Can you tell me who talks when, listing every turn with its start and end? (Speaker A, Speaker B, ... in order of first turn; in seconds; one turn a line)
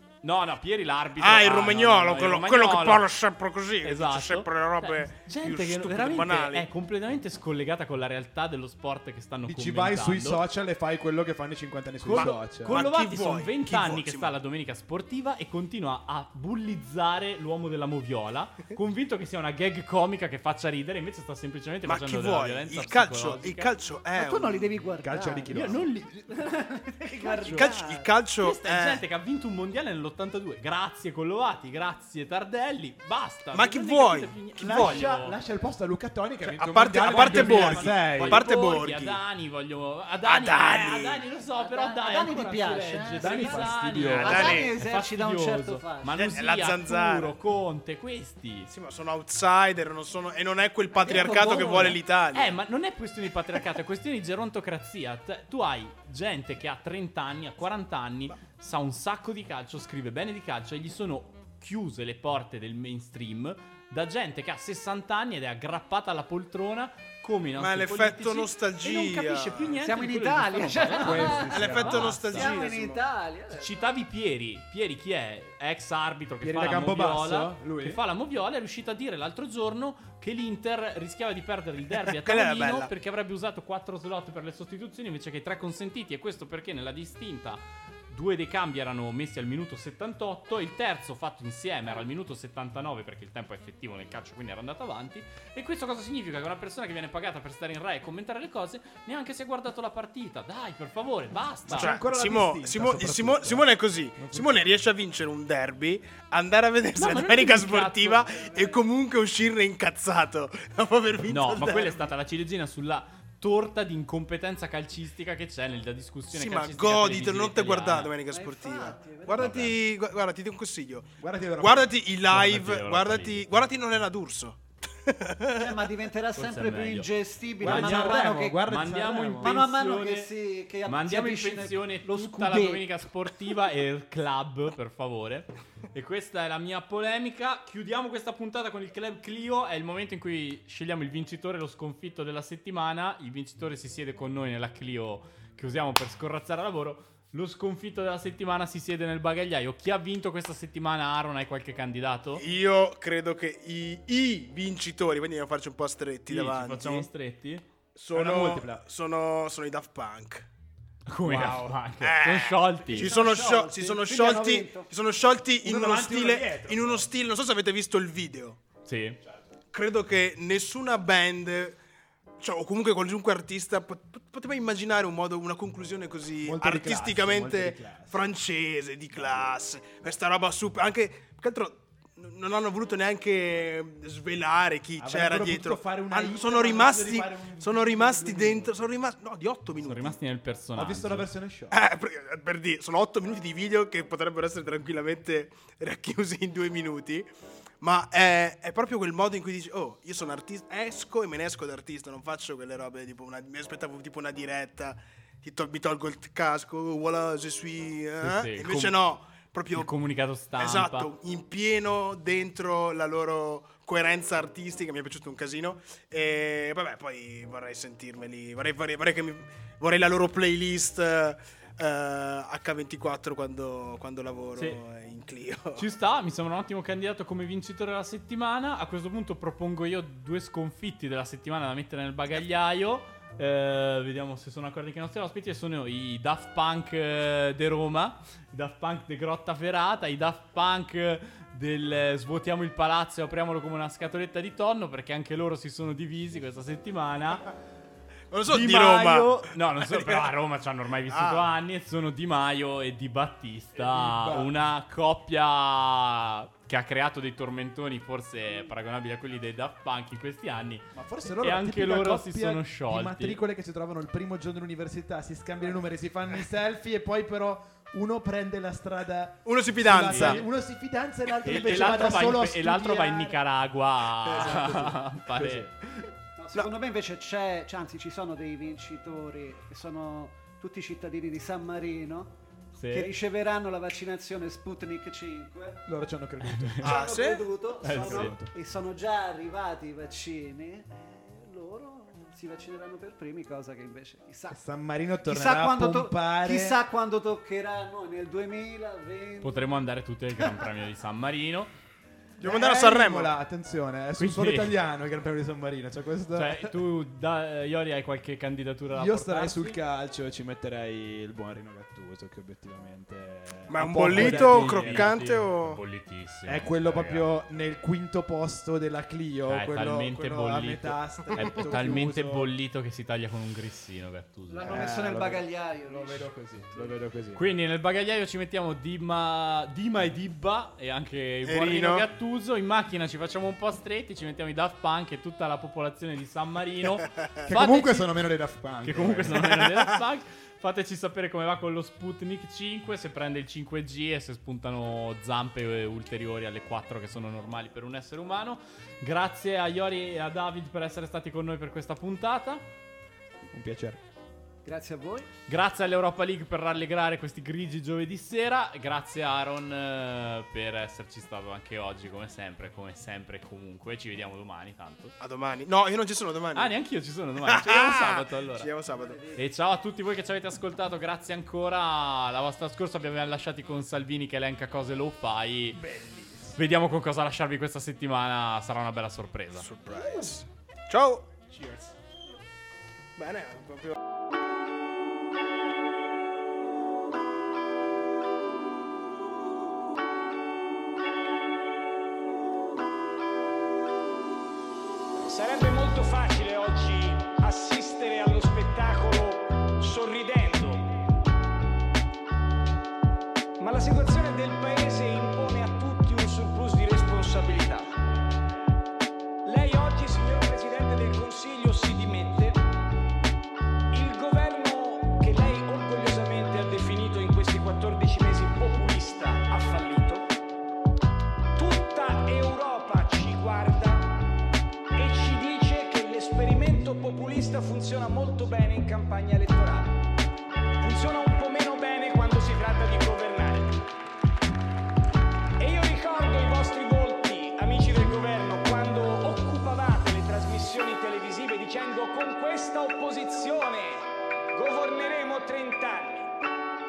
Speaker A: 0.2-3.1
Speaker B: 1.2-6.7
Speaker A: 3.8-10.4
Speaker C: 9.5-12.8
Speaker A: 12.0-23.7
Speaker B: 12.1-14.3
Speaker B: 21.9-24.7
Speaker D: 24.1-28.1
Speaker C: 25.0-25.9
Speaker A: 25.5-27.7
Speaker B: 27.5-29.0
Speaker A: 28.4-35.4
Speaker B: 33.5-34.3
Speaker C: 34.6-38.4
Speaker B: 36.5-39.2
Speaker A: 37.0-48.7
Speaker B: 40.2-41.2
Speaker D: 41.5-46.2
Speaker C: 43.2-44.5
Speaker B: 44.2-44.7
Speaker B: 46.1-47.3
Speaker B: 48.7-52.5
Speaker A: 51.0-72.6
Speaker B: 67.6-69.8
Speaker D: 69.8-73.9
Speaker C: 70.9-72.2
Speaker B: 71.2-73.1
Speaker A: 73.5-102.0
Speaker C: 76.4-78.0
Speaker B: 82.0-82.9
Speaker C: 101.7-104.7
Speaker B: 101.7-112.1
Speaker A: 107.0-108.4
Speaker D: 108.3-108.8
Speaker A: 111.3-118.2
Speaker B: 116.3-125.9
Speaker D: 118.3-119.6
Speaker A: 119.4-119.8
Speaker C: 121.2-121.9
Speaker A: 122.3-123.5
Speaker D: 125.6-128.7
Speaker A: 126.4-130.3
Speaker C: 127.6-129.6
Speaker D: 129.4-132.9
Speaker A: 130.8-152.4
Speaker B: 152.4-157.1
Speaker A: 156.3-157.6
Speaker B: 157.9-160.5
Speaker C: 158.1-158.8
Speaker A: 161.1-163.1
Speaker B: 161.3-168.6
Speaker D: 162.9-164.9
Speaker C: 165.6-167.1
Speaker A: 168.9-169.2
Speaker B: 169.7-171.8
Speaker B: 172.4-190.2
Speaker C: 176.4-178.2
Speaker C: 179.2-179.4
Speaker C: 185.0-188.9
Speaker A: 189.8-191.3
Speaker C: 190.8-191.8
Speaker B: 191.7-197.3
Speaker B: 197.8-209.9
Speaker A: 208.2-209.0
Speaker A: 209.7-211.1
Speaker B: 210.6-225.9
Speaker A: 225.8-247.5
Speaker B: 248.3-250.3
Speaker A: 248.5-263.4
Speaker B: 251.1-251.5
Speaker C: 253.8-254.5
Speaker C: 260.9-273.4
Speaker B: 269.5-270.4
Speaker A: 270.0-270.5
Speaker A: 271.4-275.7
Speaker B: 274.2-275.0
Speaker C: 274.5-275.7
Speaker D: 276.4-282.4
Speaker A: 282.8-283.1
Speaker D: 282.9-285.8
Speaker C: 285.9-287.1
Speaker A: 286.5-286.8
Speaker B: 286.8-287.5
Speaker D: 286.8-294.6
Speaker A: 287.8-288.4
Speaker C: 287.8-288.5
Speaker C: 294.5-296.8
Speaker D: 295.2-299.8
Speaker A: 299.4-301.7
Speaker B: 302.4-303.3
Speaker C: 302.4-306.7
Speaker A: 304.2-304.8
Speaker A: 306.4-309.8
Speaker C: 308.9-315.2
Speaker B: 313.7-315.8
Speaker A: 313.9-317.3
Speaker C: 316.5-322.5
Speaker A: 319.5-324.9
Speaker D: 324.5-326.9
Speaker C: 324.6-327.5
Speaker A: 327.4-338.1
Speaker B: 331.5-332.1
Speaker C: 337.5-339.7
Speaker A: 338.8-352.6
Speaker C: 353.5-354.0
Speaker D: 354.6-355.3
Speaker A: 355.5-365.1
Speaker B: 365.2-366.7
Speaker A: 366.5-368.7
Speaker B: 367.4-369.3
Speaker D: 368.9-369.4
Speaker A: 369.4-375.9
Speaker C: 375.8-376.6
Speaker A: 376.5-379.7
Speaker B: 379.6-381.3
Speaker C: 381.5-381.9
Speaker B: 383.2-384.0
Speaker E: 395.3-400.9
Speaker E: 403.6-407.9
Speaker E: 409.4-412.6
Speaker E: 413.9-420.3
Speaker E: 421.6-424.3
Speaker E: 425.0-430.1
Speaker E: 430.8-433.8
Speaker E: 435.6-446.4